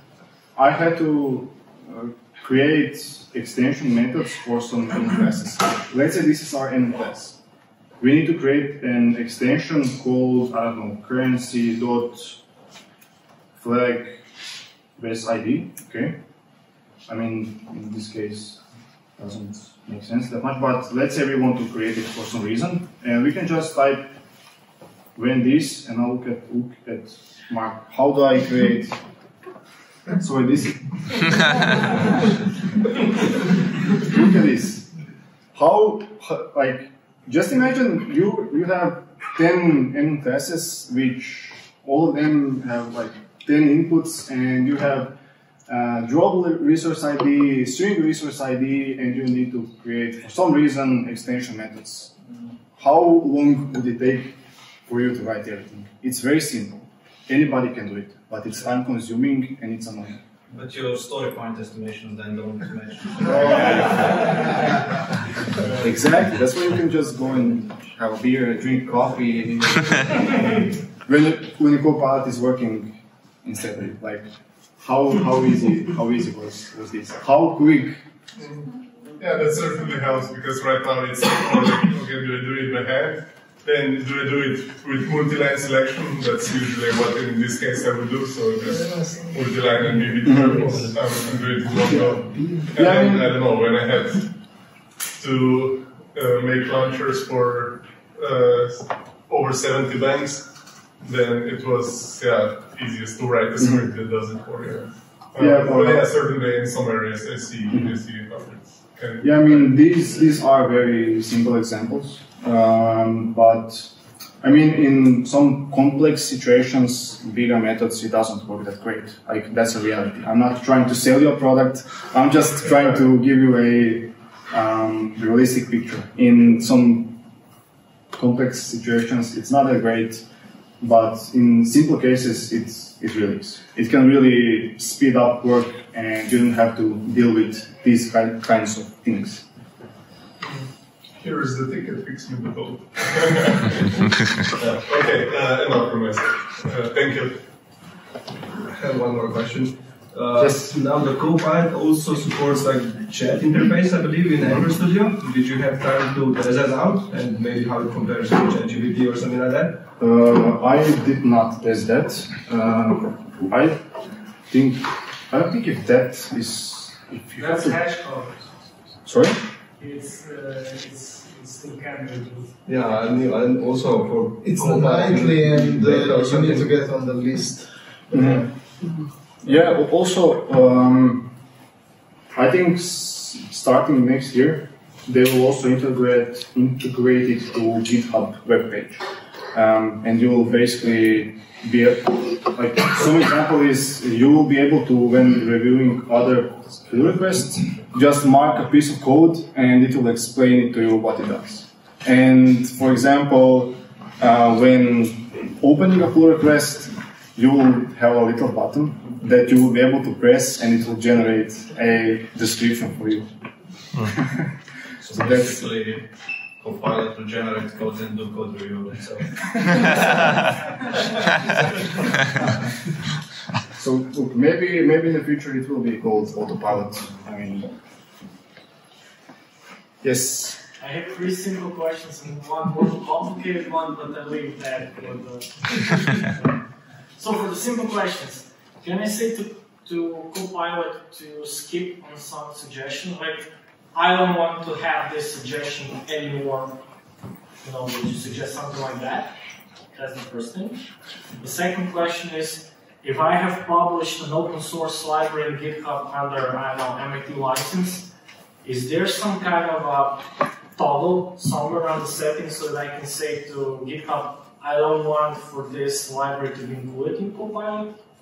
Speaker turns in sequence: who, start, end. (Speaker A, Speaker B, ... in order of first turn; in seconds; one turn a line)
Speaker A: 0.6-7.4
Speaker A: 8.0-12.4
Speaker A: 13.6-14.2
Speaker A: 15.0-16.2
Speaker A: 17.1-18.6
Speaker A: 19.2-24.1
Speaker A: 25.1-29.0
Speaker A: 30.2-31.8
Speaker A: 34.0-34.9
Speaker A: 35.5-45.1
Speaker A: 45.7-52.1
Speaker A: 52.8-60.2
Speaker B: 60.5-64.8
Speaker A: 63.2-64.3
Speaker A: 65.8-74.3
Speaker A: 74.8-78.0
Speaker C: 78.4-94.3
Speaker D: 88.8-89.3
Speaker A: 90.3-90.7
Speaker D: 90.6-90.8
Speaker D: 91.7-92.8
Speaker A: 92.7-93.3
Speaker C: 95.2-109.7
Speaker A: 105.4-106.1
Speaker A: 109.2-113.9
Speaker A: 114.4-127.2
Speaker A: 128.1-130.2
Speaker A: 130.8-139.5
Speaker C: 141.2-144.1
Speaker C: 144.7-147.4
Speaker E: 148.7-159.8
Speaker A: 150.4-150.7
Speaker A: 160.0-163.8
Speaker A: 164.5-167.8
Speaker F: 167.4-168.5
Speaker A: 169.1-169.4
Speaker F: 169.8-172.6
Speaker E: 172.7-176.8
Speaker D: 174.4-177.7
Speaker E: 178.1-178.4
Speaker A: 178.1-178.5
Speaker A: 179.4-181.3
Speaker A: 182.3-213.3
Speaker B: 215.0-216.1
Speaker A: 215.1-215.7
Speaker B: 216.6-220.4
Speaker A: 223.8-227.7
Speaker A: 230.0-230.6
Speaker F: 230.8-236.6
Speaker F: 237.2-246.8
Speaker F: 247.6-249.3
Speaker F: 249.9-250.8
Speaker F: 251.4-258.1
Speaker F: 258.6-268.0